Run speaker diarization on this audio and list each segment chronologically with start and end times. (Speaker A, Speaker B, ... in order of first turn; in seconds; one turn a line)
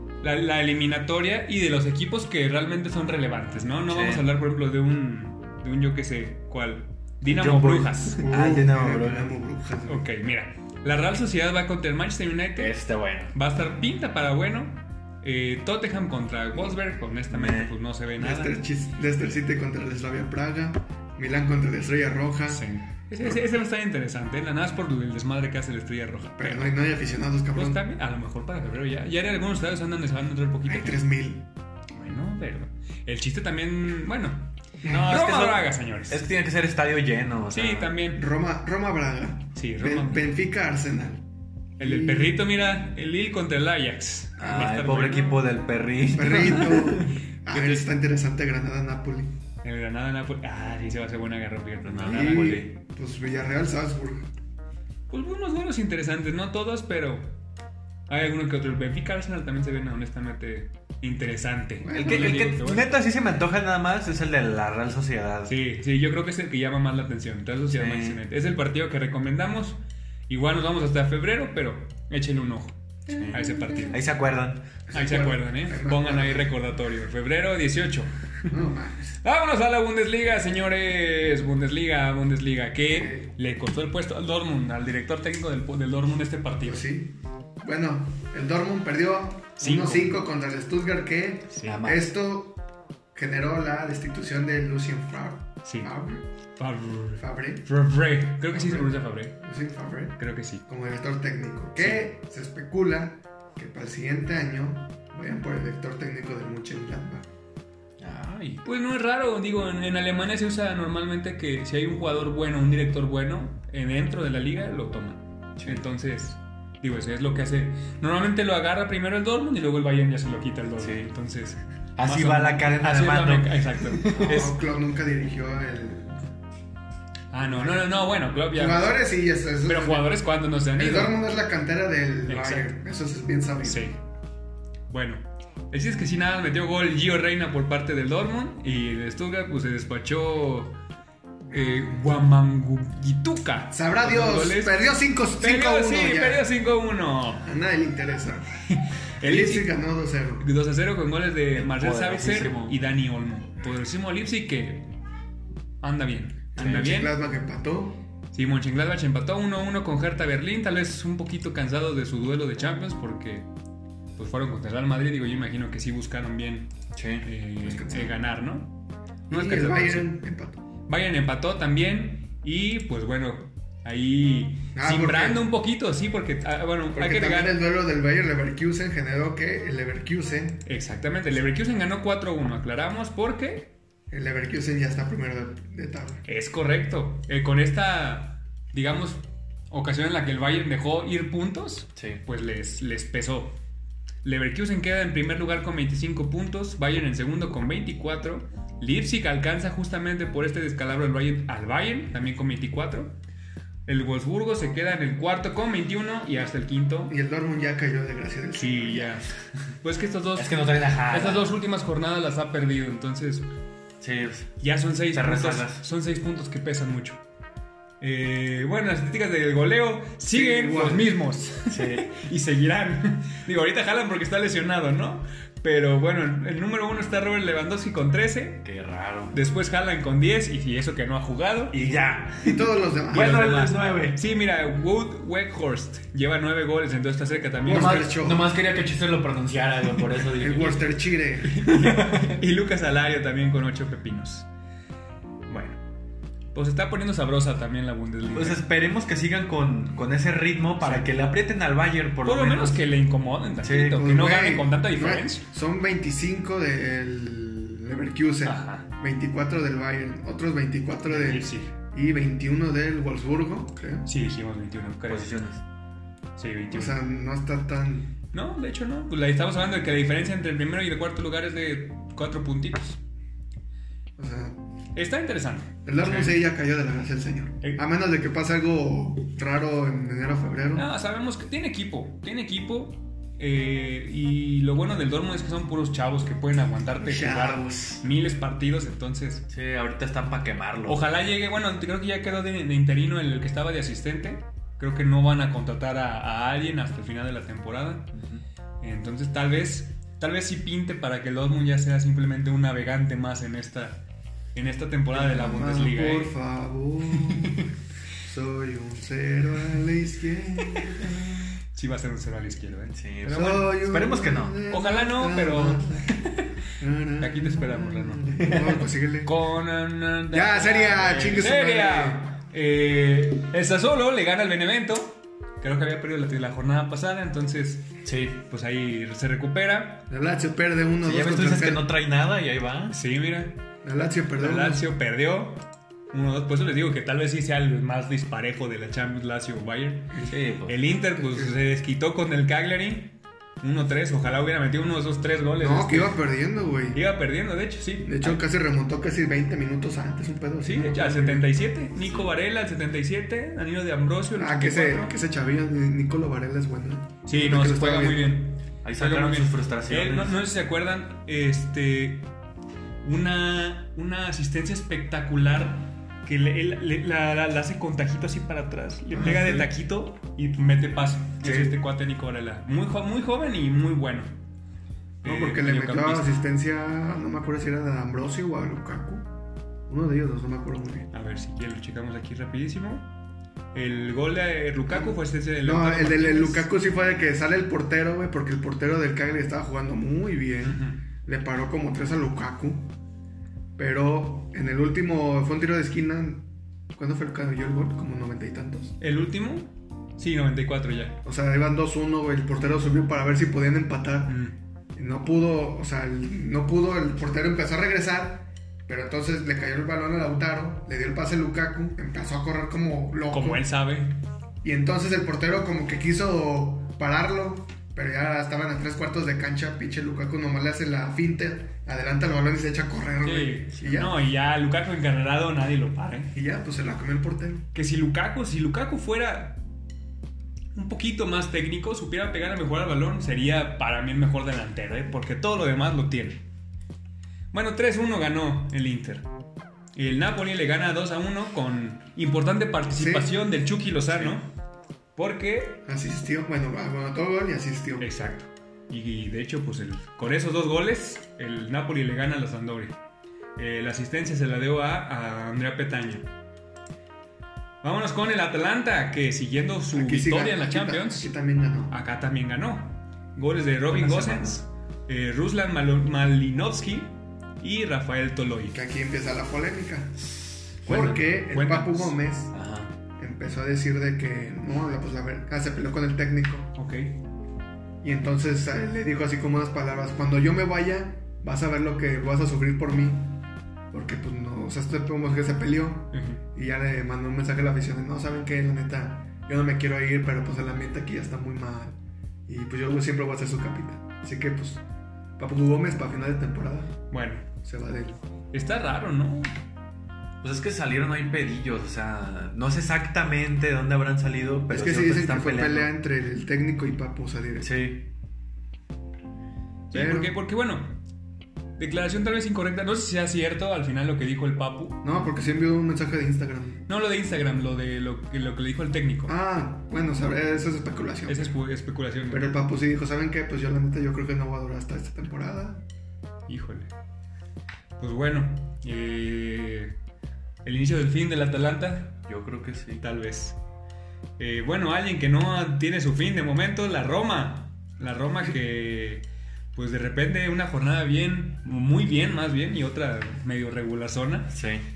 Speaker A: 0.2-8.3
Speaker B: 3.9-4.2
Speaker B: 7.2-9.3
Speaker C: 8.2-10.0
Speaker A: 9.9-12.8
Speaker B: 12.6-13.3
Speaker A: 13.3-18.6
Speaker B: 17.3-17.7
Speaker C: 18.2-22.6
Speaker A: 22.5-26.8
Speaker C: 26.4-27.8
Speaker A: 27.6-31.0
Speaker C: 30.6-31.4
Speaker A: 31.9-36.2
Speaker C: 34.8-35.1
Speaker B: 34.9-37.9
Speaker A: 37.5-38.2
Speaker C: 38.1-41.2
Speaker A: 39.5-40.2
Speaker C: 41.8-42.4
Speaker A: 41.8-45.4
Speaker B: 44.4-47.1
Speaker C: 46.1-49.3
Speaker A: 47.5-47.9
Speaker A: 49.6-52.7
Speaker B: 51.8-52.7
Speaker C: 52.1-54.2
Speaker A: 55.1-57.4
Speaker A: 58.1-62.9
Speaker C: 61.8-62.5
Speaker B: 61.9-65.5
Speaker A: 65.5-74.0
Speaker B: 67.7-68.2
Speaker B: 73.1-74.7
Speaker C: 74.9-76.5
Speaker A: 74.9-78.1
Speaker C: 78.5-79.2
Speaker A: 79.2-86.9
Speaker C: 82.8-83.3
Speaker C: 86.6-92.6
Speaker A: 89.6-90.2
Speaker A: 91.5-91.8
Speaker B: 91.6-92.1
Speaker C: 93.1-96.2
Speaker A: 95.6-95.9
Speaker A: 96.6-99.4
Speaker C: 97.2-97.7
Speaker C: 98.5-107.2
Speaker A: 100.2-100.6
Speaker A: 101.8-102.0
Speaker B: 108.0-108.6
Speaker A: 108.6-124.6
Speaker B: 115.6-115.8
Speaker B: 120.8-121.1
Speaker B: 122.0-124.4
Speaker C: 124.2-126.2
Speaker A: 127.3-129.0
Speaker C: 127.5-127.8
Speaker C: 128.5-130.2
Speaker A: 129.7-131.2
Speaker C: 130.7-133.9
Speaker A: 132.3-132.7
Speaker A: 133.6-134.0
Speaker A: 134.9-140.8
Speaker A: 141.5-144.8
Speaker C: 143.7-146.4
Speaker A: 145.4-147.5
Speaker C: 147.4-148.5
Speaker A: 148.7-149.7
Speaker C: 149.2-150.5
Speaker A: 150.4-154.9
Speaker B: 151.5-152.8
Speaker A: 155.8-157.1
Speaker C: 156.6-158.0
Speaker A: 158.3-163.5
Speaker A: 164.2-166.7
Speaker B: 166.9-167.3
Speaker A: 167.2-168.7
Speaker C: 167.6-168.2
Speaker A: 169.3-170.1
Speaker C: 169.3-170.6
Speaker A: 170.9-177.6
Speaker C: 174.7-175.4
Speaker C: 176.9-180.6
Speaker A: 180.7-183.7
Speaker C: 184.1-186.2
Speaker A: 186.2-193.6
Speaker B: 191.9-192.2
Speaker A: 194.2-203.2
Speaker A: 203.9-207.1
Speaker C: 207.1-209.2
Speaker A: 208.6-209.3
Speaker A: 209.8-213.5
Speaker B: 210.4-211.6
Speaker B: 214.0-214.5
Speaker A: 214.6-217.2
Speaker B: 215.1-215.8
Speaker A: 218.0-228.6
Speaker C: 220.3-221.1
Speaker B: 221.7-222.1
Speaker B: 228.6-229.4
Speaker A: 229.3-231.8
Speaker B: 231.7-234.2
Speaker C: 232.4-233.5
Speaker A: 233.1-238.1
Speaker C: 237.6-238.5
Speaker B: 237.7-240.9
Speaker C: 240.3-241.7
Speaker A: 241.4-244.5
Speaker B: 241.7-242.3
Speaker A: 245.5-245.8
Speaker A: 246.5-248.6
Speaker B: 248.3-252.8
Speaker A: 250.8-251.1
Speaker A: 252.2-255.4
Speaker B: 253.6-254.0
Speaker C: 253.8-264.1
Speaker A: 258.4-258.9
Speaker A: 261.1-261.7
Speaker A: 264.1-265.4
Speaker B: 265.1-265.6
Speaker A: 266.4-267.0
Speaker C: 266.7-268.1
Speaker A: 268.3-273.0
Speaker C: 274.2-274.6
Speaker A: 274.9-276.4
Speaker C: 275.9-280.9
Speaker A: 280.7-289.5
Speaker C: 287.0-288.0
Speaker B: 289.5-291.0
Speaker A: 290.9-298.1
Speaker B: 298.1-298.4
Speaker A: 298.8-304.0
Speaker A: 304.6-306.3
Speaker C: 305.1-307.7
Speaker A: 307.4-307.6
Speaker C: 308.2-311.6
Speaker A: 311.7-313.7
Speaker B: 312.9-314.6
Speaker C: 313.3-316.1
Speaker A: 314.7-316.5
Speaker C: 316.8-319.3
Speaker A: 317.2-318.6
Speaker B: 318.4-318.8
Speaker A: 319.2-330.1
Speaker C: 320.3-322.3
Speaker B: 328.1-328.4
Speaker C: 330.1-331.9
Speaker B: 331.0-332.9
Speaker A: 332.9-333.6
Speaker C: 333.8-334.9
Speaker A: 334.4-346.2
Speaker B: 340.2-340.8
Speaker C: 341.1-341.5
Speaker C: 345.6-347.0
Speaker A: 346.9-348.4
Speaker C: 348.0-351.5
Speaker A: 350.6-355.2
Speaker B: 351.9-352.3
Speaker C: 354.4-358.3
Speaker A: 357.2-362.3
Speaker B: 358.8-360.4
Speaker A: 363.0-374.3
Speaker C: 369.1-369.7
Speaker B: 371.4-371.7
Speaker A: 375.2-376.3
Speaker C: 375.2-379.3
Speaker C: 379.9-381.1
Speaker A: 381.1-383.1
Speaker A: 383.7-386.7
Speaker C: 384.9-392.9
Speaker A: 390.6-391.0
Speaker C: 393.8-398.9
Speaker A: 399.0-401.1
Speaker C: 401.2-404.4
Speaker A: 404.3-404.5
Speaker C: 404.9-413.6
Speaker A: 413.3-414.1
Speaker C: 414.6-424.1
Speaker A: 423.2-426.3
Speaker C: 426.3-427.7
Speaker A: 427.7-429.6
Speaker A: 430.7-436.4
Speaker A: 437.5-439.3
Speaker A: 440.0-444.5
Speaker C: 442.9-443.3
Speaker A: 445.1-445.8
Speaker C: 445.9-448.1
Speaker A: 448.0-453.0
Speaker A: 453.6-456.3
Speaker A: 457.8-461.3
Speaker C: 459.9-461.9
Speaker A: 461.9-468.8
Speaker B: 463.9-464.5
Speaker C: 468.7-470.2
Speaker C: 470.8-472.5
Speaker A: 470.9-472.1
Speaker B: 472.5-472.9
Speaker C: 473.2-476.8
Speaker A: 476.8-477.2
Speaker C: 478.0-483.4
Speaker C: 483.9-492.0
Speaker A: 486.1-486.4
Speaker C: 492.5-494.8
Speaker C: 495.4-496.9
Speaker A: 497.1-497.5
Speaker C: 497.6-498.2
Speaker A: 498.5-499.5
Speaker B: 500.4-505.9
Speaker C: 504.7-507.7
Speaker B: 507.6-508.1
Speaker A: 509.9-511.0
Speaker C: 509.9-510.3
Speaker A: 511.8-515.0
Speaker C: 515.0-516.8
Speaker A: 516.9-519.4
Speaker C: 519.3-521.6
Speaker A: 521.3-522.5
Speaker C: 522.3-525.8
Speaker A: 526.5-526.9
Speaker A: 528.0-529.9
Speaker A: 530.6-532.2
Speaker B: 532.3-533.0
Speaker A: 533.0-533.6
Speaker A: 534.4-544.6
Speaker B: 544.5-544.9